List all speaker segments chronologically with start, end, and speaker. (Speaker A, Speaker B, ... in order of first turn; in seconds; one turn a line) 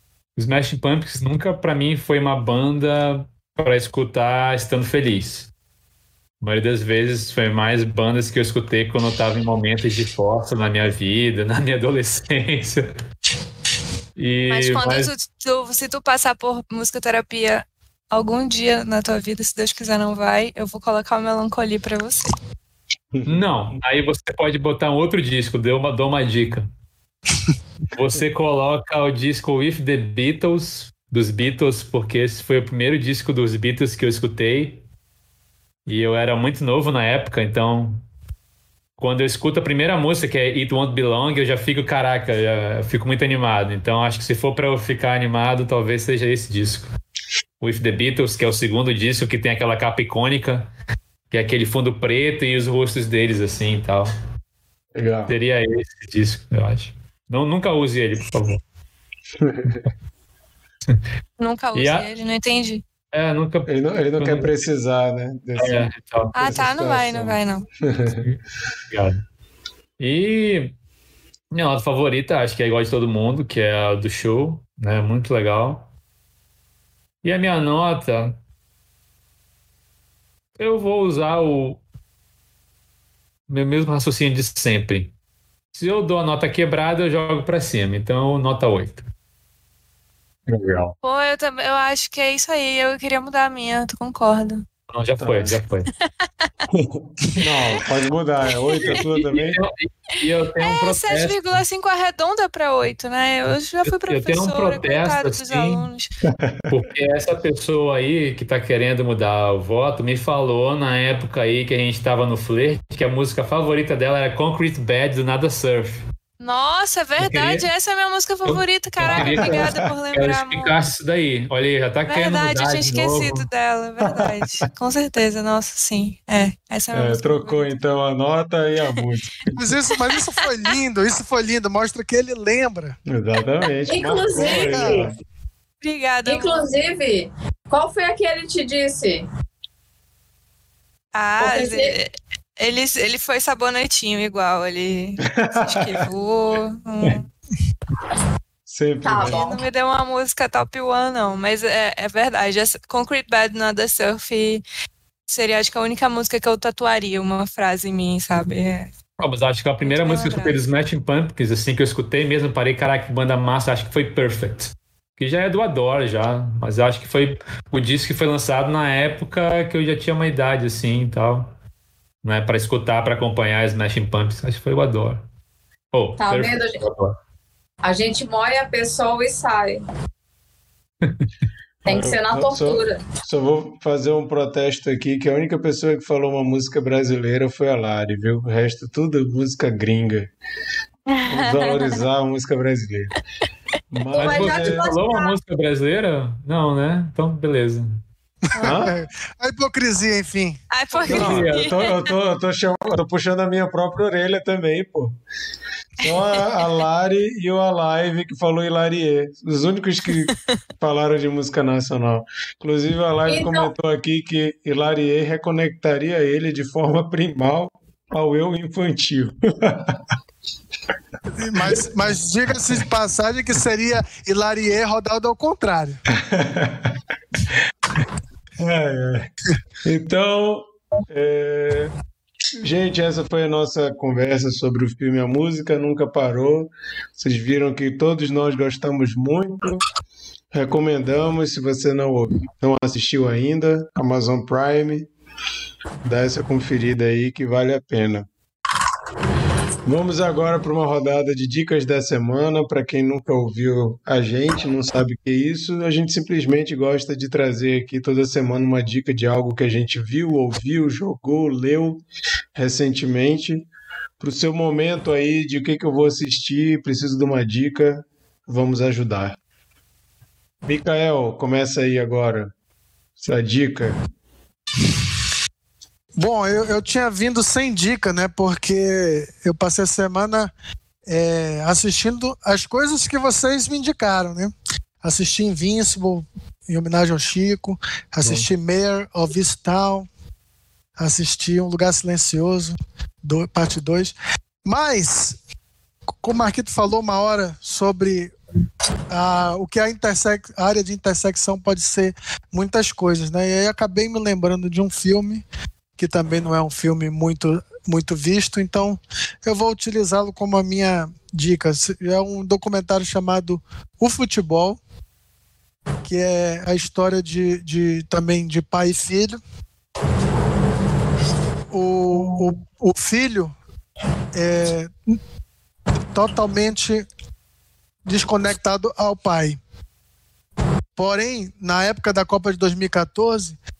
Speaker A: 0.3-5.5
Speaker A: 6.4-12.8
Speaker A: 14.2-15.1
Speaker B: 14.5-22.3
Speaker C: 23.1-23.5
Speaker A: 23.2-26.7
Speaker A: 27.9-34.8
Speaker A: 35.9-38.0
Speaker A: 39.0-46.9
Speaker A: 47.6-50.7
Speaker A: 51.3-54.1
Speaker C: 54.9-55.3
Speaker A: 55.3-58.6
Speaker C: 59.4-59.8
Speaker B: 61.4-62.8
Speaker A: 61.7-62.1
Speaker A: 63.1-64.7
Speaker C: 63.7-65.9
Speaker A: 65.5-66.5
Speaker B: 66.3-67.7
Speaker C: 66.4-68.2
Speaker A: 68.9-69.2
Speaker A: 70.0-70.8
Speaker A: 71.5-75.9
Speaker A: 77.2-78.4
Speaker A: 80.6-81.8
Speaker A: 83.5-85.1
Speaker A: 85.7-89.1
Speaker C: 90.5-90.9
Speaker B: 91.0-94.7
Speaker A: 94.9-95.9
Speaker C: 95.2-95.5
Speaker B: 96.2-96.6
Speaker C: 96.7-99.6
Speaker B: 97.4-97.8
Speaker B: 98.7-99.1
Speaker A: 99.3-101.6
Speaker B: 100.6-106.1
Speaker A: 104.1-105.9
Speaker A: 106.7-116.0
Speaker B: 116.4-120.8
Speaker A: 117.2-117.7
Speaker A: 118.5-123.5
Speaker C: 119.1-119.9
Speaker B: 122.1-127.7
Speaker C: 124.0-124.6
Speaker C: 126.9-129.6
Speaker D: 129.6-132.9
Speaker B: 130.1-130.8
Speaker C: 133.1-135.2
Speaker E: 133.9-135.1
Speaker D: 134.4-135.1
Speaker B: 135.8-136.7
Speaker E: 136.2-139.2
Speaker B: 141.1-147.3
Speaker E: 141.4-141.9
Speaker C: 145.3-146.1
Speaker C: 148.7-149.4
Speaker E: 149.0-149.6
Speaker B: 149.2-154.6
Speaker B: 155.3-158.9
Speaker A: 159.2-171.6
Speaker B: 159.8-160.6
Speaker A: 172.2-175.2
Speaker A: 175.9-177.1
Speaker E: 176.2-176.8
Speaker E: 177.8-179.8
Speaker E: 181.8-183.0
Speaker C: 181.8-190.3
Speaker B: 191.1-192.1
Speaker C: 191.3-193.1
Speaker C: 193.9-194.8
Speaker E: 194.1-195.3
Speaker A: 194.1-198.0
Speaker D: 198.5-200.6
Speaker C: 198.6-198.9
Speaker B: 200.7-202.1
Speaker A: 201.0-201.7
Speaker C: 201.0-205.2
Speaker C: 206.0-220.0
Speaker B: 206.0-206.4
Speaker B: 210.2-210.5
Speaker E: 213.3-213.7
Speaker D: 221.4-226.0
Speaker C: 226.2-226.9
Speaker C: 227.4-228.0
Speaker C: 228.6-229.3
Speaker C: 229.8-231.9
Speaker C: 232.6-239.9
Speaker C: 240.5-245.1
Speaker C: 246.0-248.3
Speaker C: 249.8-262.0
Speaker C: 262.6-263.7
Speaker C: 264.2-269.4
Speaker C: 270.6-272.5
Speaker C: 273.2-274.0
Speaker D: 276.1-280.5
Speaker D: 281.1-290.1
Speaker D: 291.0-295.4
Speaker D: 296.2-298.3
Speaker D: 299.1-305.4
Speaker D: 306.0-314.8
Speaker D: 316.0-319.4
Speaker D: 321.7-323.6
Speaker D: 324.3-325.1
Speaker D: 326.1-327.1
Speaker D: 328.1-329.6
Speaker D: 330.9-333.6